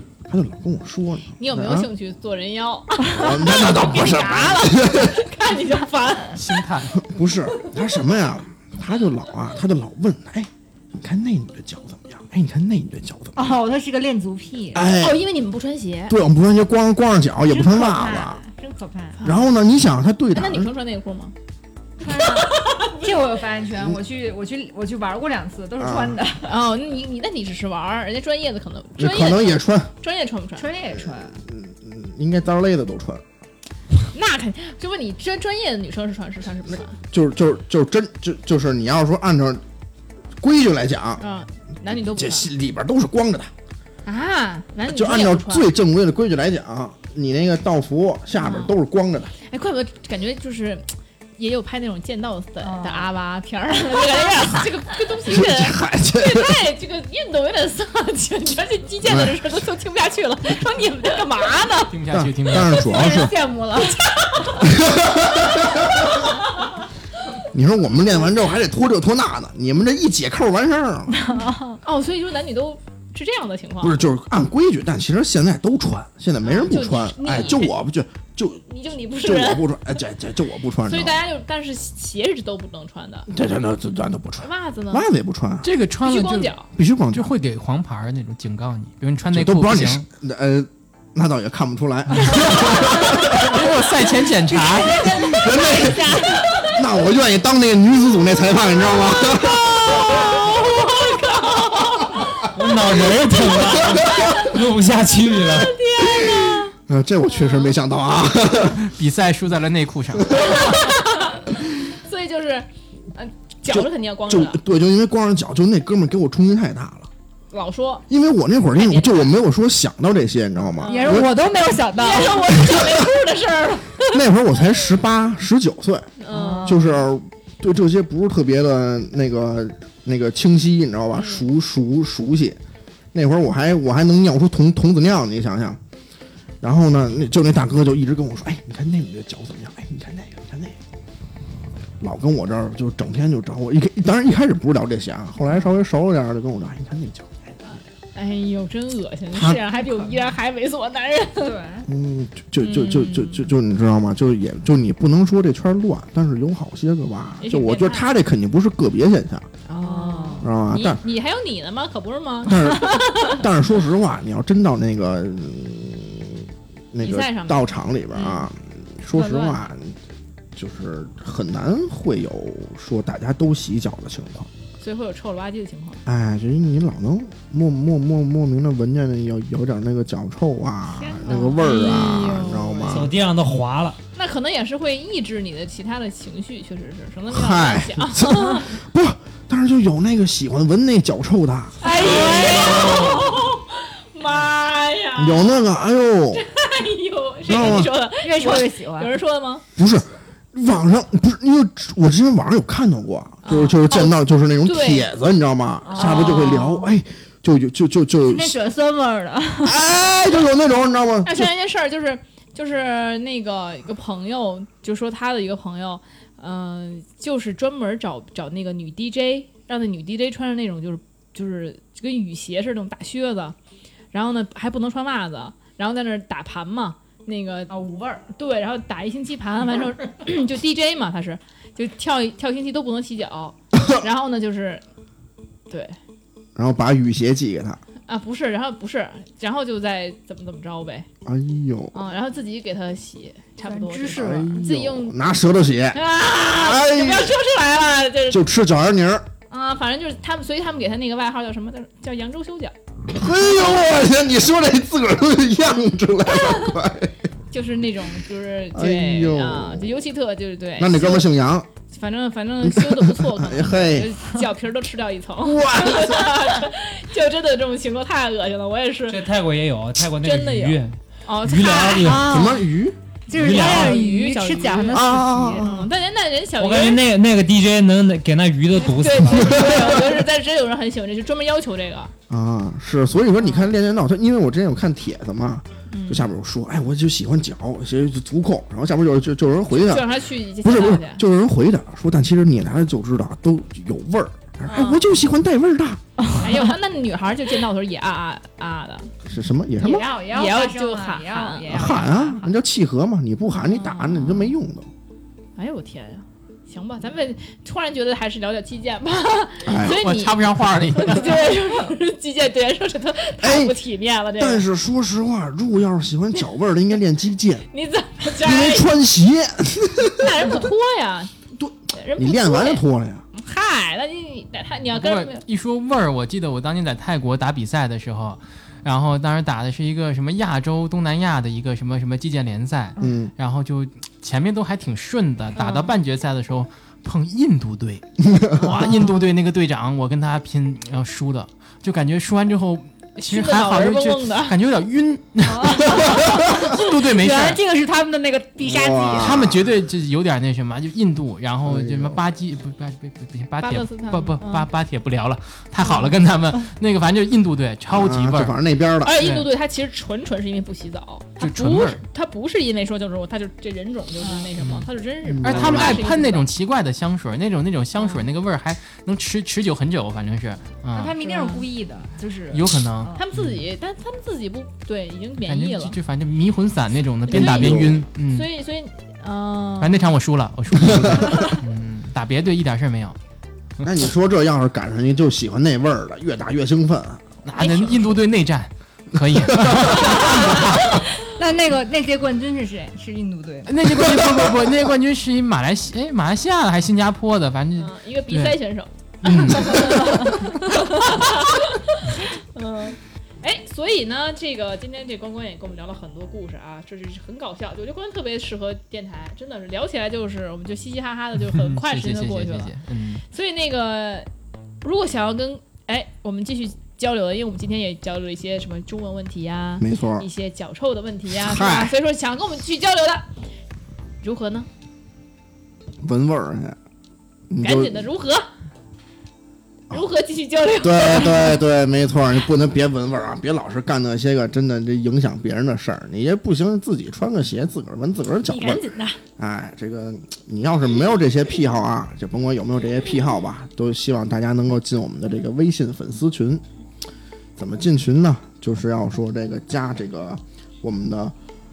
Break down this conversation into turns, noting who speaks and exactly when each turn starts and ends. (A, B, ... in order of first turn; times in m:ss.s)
0:00.2-0:01.9 A
0:01.4-0:06.6 B
0:03.1-0:05.2 A
0:06.4-0:07.0 C
0:07.0-0:13.5 A
0:13.3-0:14.9 D
0:14.7-0:15.2 A
0:14.9-0:16.1 B
0:16.1-0:18.4 A
0:17.5-0:19.3 D
0:19.2-0:19.5 B
0:19.2-0:20.7 A
0:20.3-0:21.3 B
0:22.0-0:26.5 D
0:22.2-0:23.1 B
0:25.8-0:26.2 A
0:26.4-0:30.7 B
0:29.0-0:29.9 A
0:30.6-0:31.4 D
0:31.0-0:33.2 A
0:34.1-0:37.0 B
0:37.1-0:39.6 A
0:40.4-0:41.2 A
0:41.2-0:42.5 B
0:41.9-0:43.5 A
0:44.0-0:45.7 B
0:44.9-0:49.3 A
0:48.4-0:48.7 B
0:49.4-1:01.9 B
0:52.6-0:53.1 D
0:53.9-0:54.6 D
0:55.3-0:56.6 A
0:59.0-0:59.4 A
1:01.9-1:02.8 C
1:02.1-1:03.3 A
1:02.7-1:04.1 D
1:03.9-1:04.7 B
1:04.6-1:06.1 A
1:07.5-1:11.2 A
1:11.1-1:11.8 D
1:11.8-1:14.0 B
1:13.8-1:18.6 A
1:16.4-1:17.7 B
1:18.7-1:19.7 B
1:19.2-1:21.2 A
1:20.8-1:23.3 B
1:23.3-1:25.7 A
1:24.4-1:25.0 B
1:25.6-1:30.0 C
1:26.0-1:26.7 B
1:26.8-1:27.3 A
1:29.3-1:33.6 A
1:33.3-1:35.0 C
1:34.5-1:36.8 D
1:35.0-1:40.6 A
1:39.2-1:42.4 B
1:40.1-1:40.6 D
1:42.4-1:45.8 E
1:43.5-1:44.4 A
1:44.1-1:44.4 B
1:45.3-1:46.7 B
1:46.0-1:48.9 A
1:47.3-1:47.7 B
1:48.8-1:50.6 C
1:50.2-1:50.6 A
1:50.4-1:54.6 B
1:53.7-1:57.1 A
1:57.5-1:58.0 B
1:58.1-2:01.3 A
1:58.8-1:59.3 B
2:00.8-2:01.3 B
2:00.8-2:02.6 D
2:01.9-2:04.2 B
2:02.6-2:03.0 A
2:04.1-2:06.1 A
2:06.2-2:06.9 B
2:06.3-2:06.9 D
2:06.6-2:12.6 A
2:11.1-2:11.4 B
2:13.1-2:15.8 A
2:16.6-2:20.8 A
2:22.0-2:27.6 A
2:27.6-2:31.6 B
2:29.3-2:29.6 A
2:29.8-2:30.2 D
2:31.4-2:31.9 D
2:31.9-2:39.5 A
2:32.6-2:33.5 B
2:37.4-2:38.1 B
2:39.6-2:43.4 B
2:39.8-2:40.5 D
2:40.4-2:41.0 A
2:42.4-2:49.9 A
2:47.0-2:48.5 B
2:49.1-2:49.6 D
2:50.5-2:54.5 A
2:54.8-2:56.0 B
2:56.0-3:03.2 A
3:01.0-3:03.0 B
3:01.1-3:01.6 D
3:02.9-3:04.0 E
3:04.1-3:08.7 B
3:07.3-3:13.0 A
3:11.8-3:13.3 D
3:11.8-3:15.7 B
3:15.2-3:16.4 A
3:16.3-3:19.6 B
3:17.5-3:17.9 A
3:18.2-3:19.2 D
3:19.8-3:28.6 A
3:23.4-3:25.1 B
3:25.8-3:26.8 D
3:25.9-3:26.8 B
3:28.2-3:29.8 D
3:29.6-3:31.5 A
3:31.2-3:43.6 B
3:44.1-3:47.7 B
3:47.7-3:48.2 D
3:48.3-3:54.8 B
3:55.7-3:56.0 B
3:56.6-3:57.8 A
3:58.1-4:01.1 B
4:01.2-4:01.9 A
4:01.9-4:05.1 B
4:03.6-4:04.6 D
4:04.1-4:07.3 A
4:05.9-4:08.4 B
4:08.3-4:09.2 A
4:09.5-4:12.7 B
4:13.1-4:17.2 A
4:17.5-4:21.3 B
4:18.7-4:20.0 A
4:20.8-4:21.7 A
4:21.9-4:29.2 B
4:22.6-4:24.1 A
4:25.4-4:26.5 A
4:29.1-4:32.4 E
4:30.2-4:32.2 B
4:32.0-4:32.6 D
4:32.2-4:33.0 A
4:33.3-4:35.7 D
4:33.3-4:34.0 E
4:33.3-4:35.1 B
4:34.9-4:35.9 A
4:35.6-4:37.0 B
4:36.6-4:39.6 E
4:38.7-4:42.1 B
4:39.3-4:40.2 A
4:42.3-4:50.1 A
4:43.4-4:43.6 B
4:45.9-4:46.3 B
4:49.7-4:51.2 B
4:50.6-4:56.0 A
4:54.7-4:55.0 B
4:56.2-4:56.7 D
4:56.4-4:59.1 B
4:59.2-5:00.1 A
4:59.8-5:02.4 D
4:59.8-5:02.4 B
5:01.7-5:04.9 A
5:03.5-5:04.5 B
5:05.6-5:14.6 B
5:09.6-5:10.1 A
5:09.9-5:11.5 C
5:11.3-5:11.6 D
5:13.4-5:13.8 A
5:14.3-5:17.7 A
5:17.7-5:18.9 B
5:18.4-5:20.5 A
5:20.2-5:21.3 B
5:21.6-5:23.2 A
5:21.9-5:22.8 B
5:23.3-5:25.4 B
5:24.9-5:47.6 C
5:33.0-5:33.3 A
5:35.6-5:35.9 B
5:38.2-5:38.9 A
5:43.2-5:44.5 B
5:45.4-5:49.4 D
5:48.6-5:49.7 A
5:49.2-5:58.6 C
5:51.6-5:52.2 A
5:53.6-5:54.7 B
5:57.9-5:59.2 A
5:59.0-6:06.5 B
5:59.2-5:59.5 C
6:01.4-6:02.0 C
6:04.2-6:04.5 D
6:04.6-6:04.9 C
6:05.2-6:06.1 A
6:05.4-6:11.2 C
6:10.9-6:13.3 D
6:11.2-6:11.6 B
6:12.5-6:13.6 C
6:13.1-6:15.9 B
6:15.4-6:18.5 C
6:17.2-6:20.0 B
6:17.3-6:18.0 A
6:19.8-6:23.2 C
6:20.8-6:21.2 A
6:21.3-6:21.6 D
6:23.8-6:27.2 A
6:27.4-6:30.9 C
6:27.6-6:28.1 B
6:29.5-6:29.9 A
6:30.0-6:33.7 D
6:33.6-6:38.6 C
6:34.0-6:34.5 A
6:37.8-6:52.7 B
6:39.2-6:40.5 C
6:39.8-6:40.3 D
6:51.5-6:53.2 C
6:53.3-6:54.3 B
6:54.8-7:03.3 B
6:59.8-7:00.3 A
7:01.3-7:02.0 A
7:04.2-7:04.7 B
7:06.0-7:06.8 A
7:07.5-7:08.1 A
7:07.6-7:08.4 B
7:09.9-7:11.6 B
7:10.8-7:18.8 A
7:18.5-7:19.2 B
7:19.4-7:26.6 A
7:27.6-7:31.3 A